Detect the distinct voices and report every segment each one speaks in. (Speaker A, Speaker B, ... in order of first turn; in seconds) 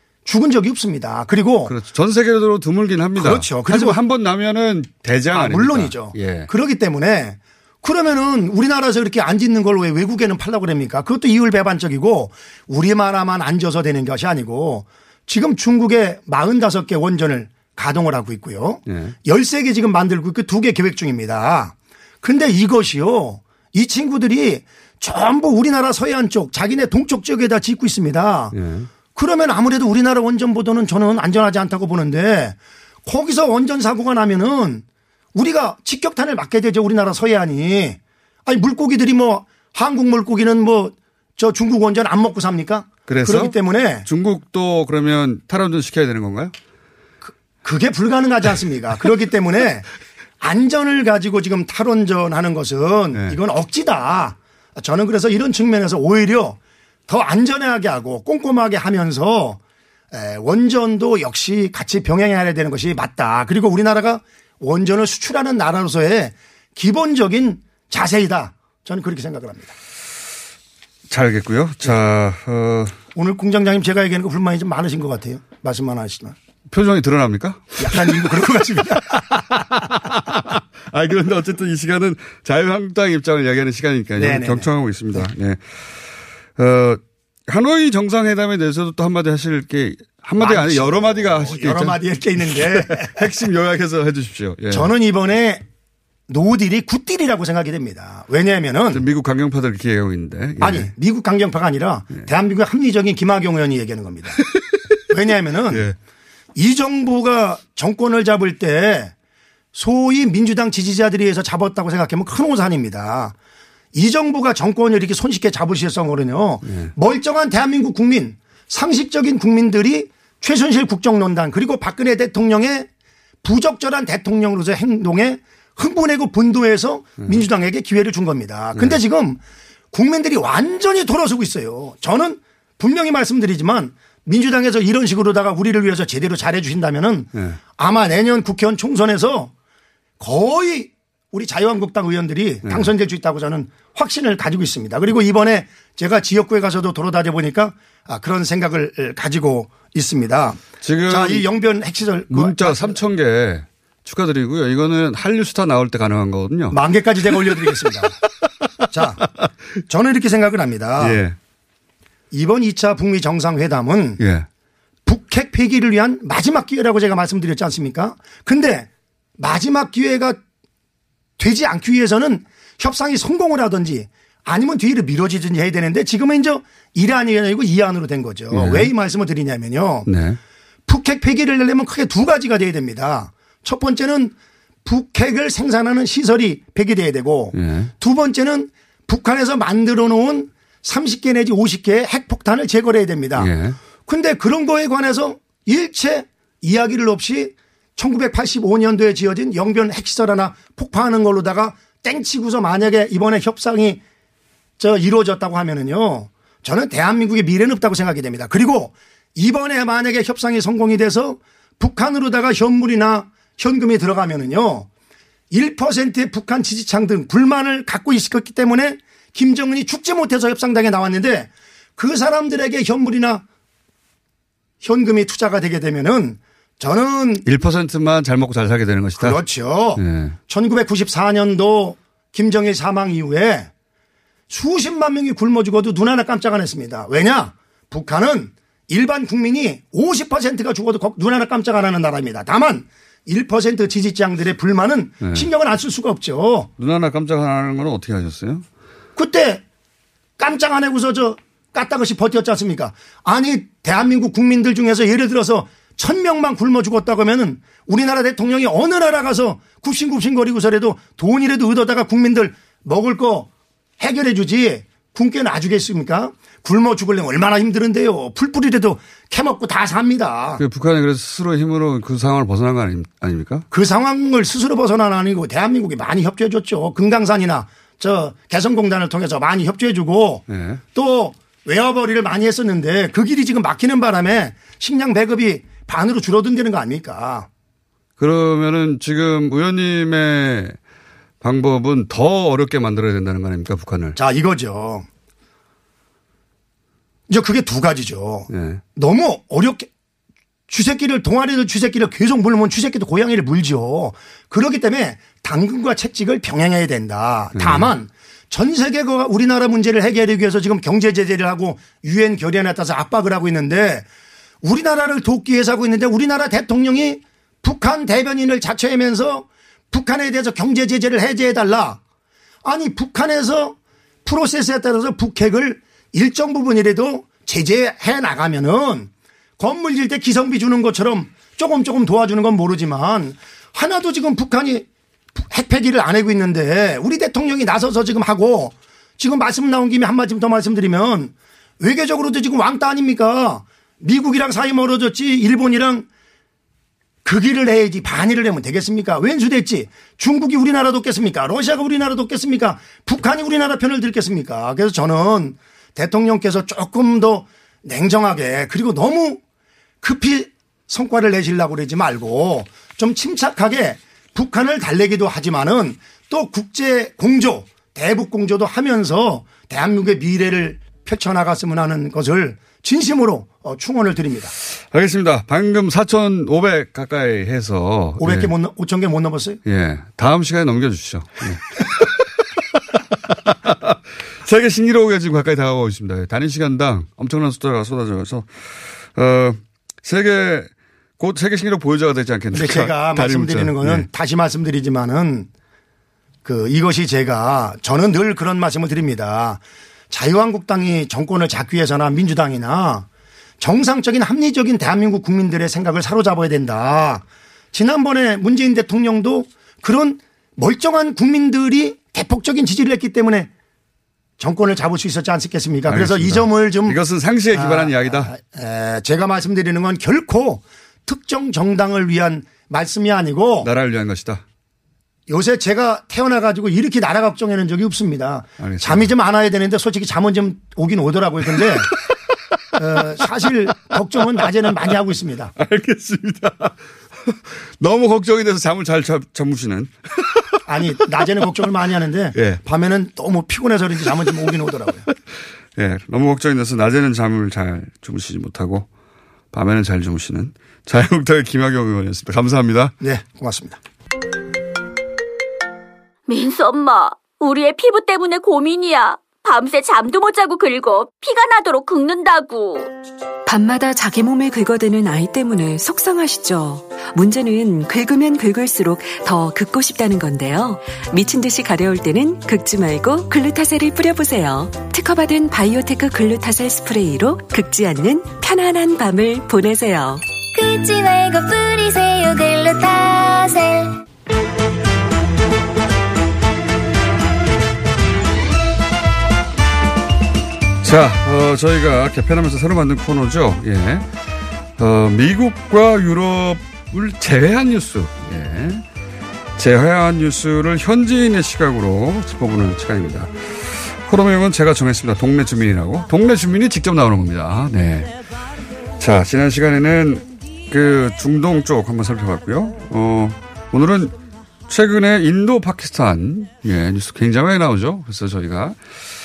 Speaker A: 0.2-1.8, 3.2-4.0, 5.3-28.5, 29.1-34.8, 35.3-44.1, 47.2-49.9, 50.4-59.6, 60.1-69.7, 73.1-76.3, 77.8-79.6, 84.2-84.7, 90.4-93.3, 94.7-95.6, 96.3-99.0, 100.6-104.4, 105.1-105.9, 106.5-109.1, 109.7-113.3, 113.9-122.9, 123.4-129.4, 129.9-139.5, 140.2-153.0, 156.7-158.2, 158.9-159.2, 159.9-161.2, 162.3-164.2, 165.1-170.4, 171.4-180.1, 180.9-184.3, 184.8-193.5, 194.1-204.0, 204.8-214.9, 215.5-223.4, 224.8-227.4, 229.2-233.7, 234.5-246.7, 249.2-249.6, 250.4-263.5, 264.0-270.6, 273.7-287.5, 294.1-295.1, 297.3-299.9, 300.7-314.1, 314.6-322.0, 322.6-334.9, 335.4-346.1, 347.2-359.4, 360.0-374.5, 378.2-379.6, 392.5-395.5, 396.4-403.1, 403.6-413.5, 414.4-417.0, 417.5-423.7, 425.3-431.9, 432.8-435.5, 440.6-445.1, 453.0-453.8
Speaker B: 1.6-6.5, 18.9-19.1, 28.5-28.9, 43.1-46.5, 71.1-73.0, 76.7-86.0, 86.5-94.9, 98.9-100.9, 105.7-105.9, 116.6-116.9, 137.3-137.6, 142.6-142.9, 150.8-151.5, 152.3-156.8, 161.0-161.3, 164.2-164.5, 178.5-178.9, 180.1-180.4, 187.5-187.9, 193.3-193.8, 227.4-229.4, 229.9-230.3, 245.2-245.5, 246.8-248.7, 270.6-273.7, 280.5-280.8, 288.2-290.8, 291.4-294.2, 298.5-298.8, 307.5-307.9, 374.7-378.5, 379.6-394.1, 415.9-418.3, 423.6-424.4, 428.6-429.1, 431.6-431.9, 434.4-434.9, 435.6-440.6, 441.2-441.4, 442.3-442.6, 445.7-448.9, 449.5-452.9, 490.8-494.1, 494.8-498.8, 499.6-508.1, 509.0-514.1, 514.7-518.8
Speaker C: 456.3-462.9
Speaker D: 463.4-480.2
Speaker E: 480.5-484.0